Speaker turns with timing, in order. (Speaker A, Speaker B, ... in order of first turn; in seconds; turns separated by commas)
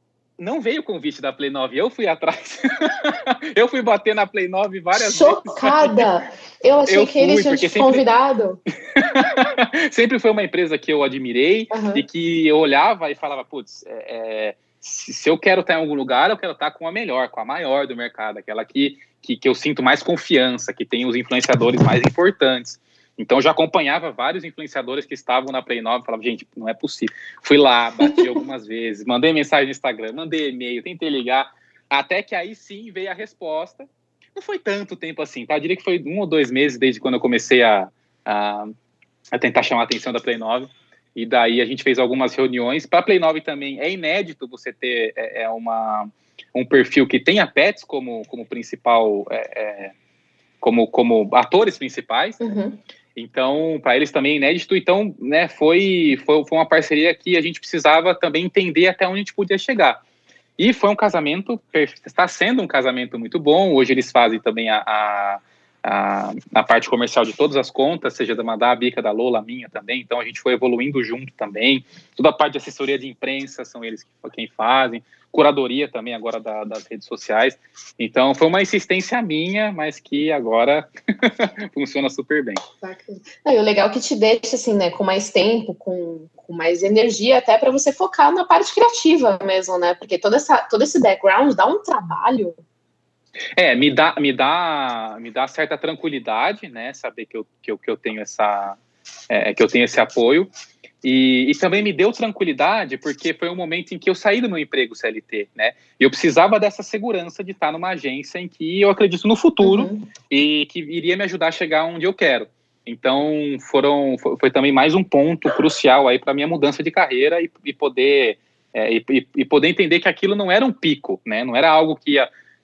Speaker A: 0.4-6.1, Speaker B: 4.9-8.6, Speaker A: 6.9-8.0, Speaker A: 8.9-38.7, Speaker B: 11.7-12.0, Speaker A: 39.3-49.9, Speaker A: 50.6-52.4, Speaker B: 52.4-52.8, Speaker A: 53.1-60.0, Speaker A: 60.6-82.6, Speaker B: 82.8-92.5, Speaker A: 93.5-98.8, Speaker A: 99.3-100.5, Speaker A: 101.0-122.3, Speaker B: 109.6-110.1